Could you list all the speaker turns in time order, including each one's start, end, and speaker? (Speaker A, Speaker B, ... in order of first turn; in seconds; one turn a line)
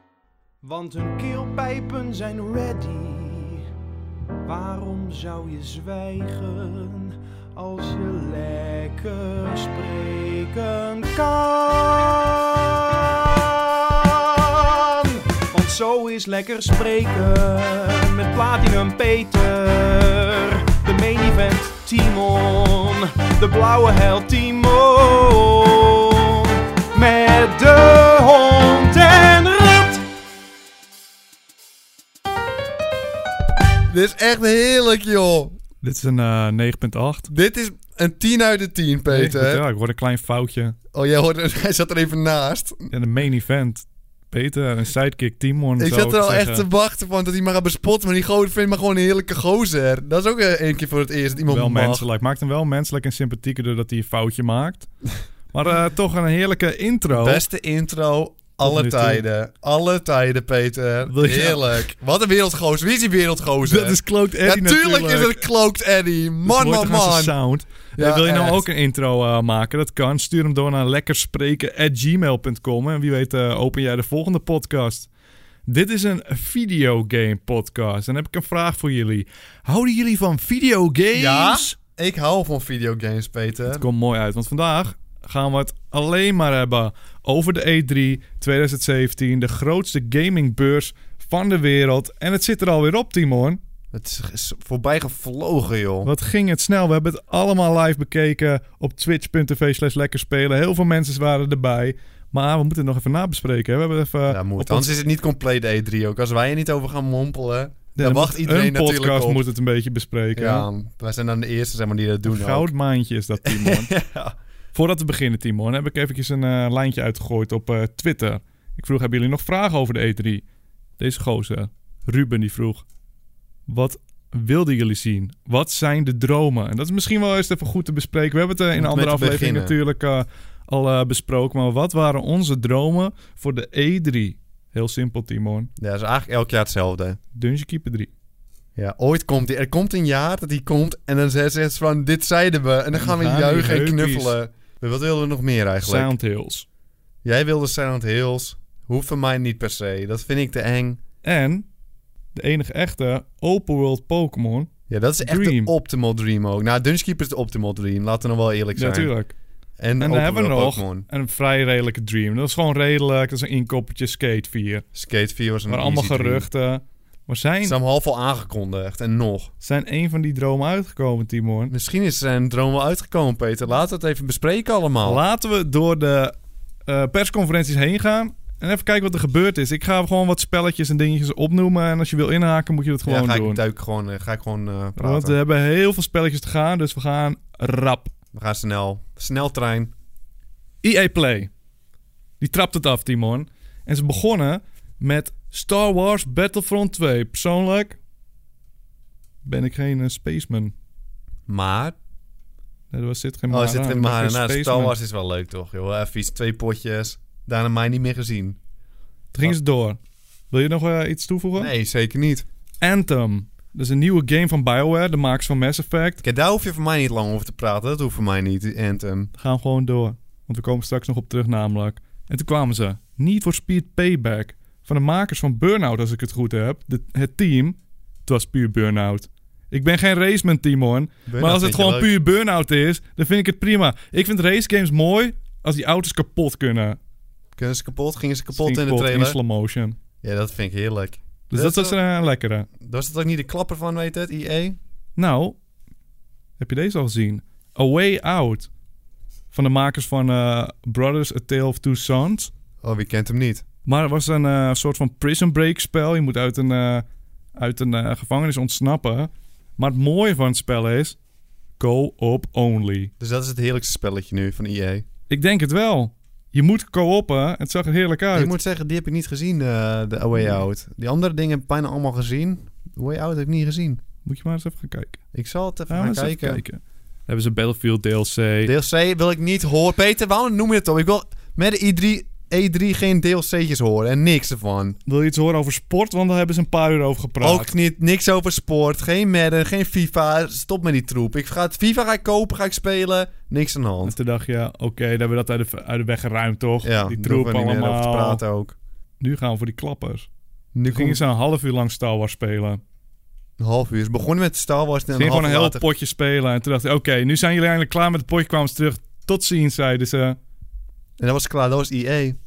Speaker A: 0.6-3.6
Speaker A: 4.4-30.0
Speaker B: 33.9-35.6
Speaker C: 35.8-37.3
Speaker B: 37.3-39.6
Speaker C: 39.1-40.8
Speaker B: 40.9-42.9
Speaker C: 42.9-46.7
Speaker B: 45.8-52.0
Speaker C: 51.5-54.9
Speaker C: 55.5-57.4
Speaker B: 57.1-67.4
Speaker C: 58.6-59.2
Speaker C: 61.0-61.9
Speaker C: 63.6-65.4
Speaker C: 66.5-75.1
Speaker B: 68.0-68.7
Speaker C: 75.7-81.8
Speaker B: 81.1-83.8
Speaker C: 83.7-93.6
Speaker B: 93.9-96.1
Speaker C: 96.0-104.9
Speaker B: 104.3-109.4
Speaker C: 107.9-110.7
Speaker B: 110.3-112.7
Speaker C: 112.2-113.9
Speaker B: 113.4-114.3
Speaker C: 114.7-120.4
Speaker C: 121.0-122.8
Speaker C: 123.7-135.7
Speaker B: 128.8-129.8
Speaker B: 135.8-137.2
Speaker C: 137.3-138.1
Speaker B: 138.8-146.1
Speaker C: 142.9-144.3
Speaker C: 145.8-146.7
Speaker B: 147.2-151.0
Speaker C: 151.2-151.7
Speaker C: 152.3-154.7
Speaker B: 154.9-159.1
Speaker C: 155.2-155.7
Speaker C: 158.8-159.3
Speaker B: 159.8-161.0
Speaker C: 160.0-164.8
Speaker B: 164.9-166.5
Speaker C: 165.7-167.8
Speaker B: 167.6-169.5
Speaker C: 169.6-171.7
Speaker B: 171.7-175.2
Speaker C: 175.0-176.3
Speaker C: 176.8-183.6
Speaker B: 183.1-185.4
Speaker C: 185.0-188.1
Speaker B: 188.3-189.9
Speaker C: 190.8-191.5
Speaker C: 192.4-198.0
Speaker C: 199.4-200.7
Speaker B: 201.5-202.0
Speaker C: 202.9-204.9
Speaker B: 203.5-208.6
Speaker C: 209.3-210.0
Speaker C: 210.5-211.7
Speaker B: 211.6-212.4
Speaker C: 212.8-216.2
Speaker B: 216.2-219.3
Speaker C: 219.4-237.0
Speaker B: 231.3-232.1
Speaker B: 237.6-239.4
Speaker C: 238.5-240.0
Speaker B: 240.2-242.0
Speaker C: 241.5-242.7
Speaker B: 242.8-244.8
Speaker C: 245.2-245.6
Speaker C: 246.6-248.7
Speaker C: 249.5-252.5
Speaker B: 252.8-253.6
Speaker C: 253.8-257.0
Speaker C: 257.6-261.2
Speaker C: 261.8-263.1
Speaker B: 263.2-265.1
Speaker C: 265.3-268.5
Speaker B: 268.3-274.0
Speaker C: 274.2-275.2
Speaker B: 275.3-276.6
Speaker C: 275.9-278.7
Speaker B: 278.6-285.0
Speaker C: 285.1-287.7
Speaker B: 287.4-294.1
Speaker C: 294.0-298.4
Speaker B: 296.8-298.8
Speaker C: 299.2-300.3
Speaker B: 300.7-301.2
Speaker C: 300.9-302.8
Speaker B: 303.6-305.8
Speaker C: 305.1-310.4
Speaker B: 311.2-312.4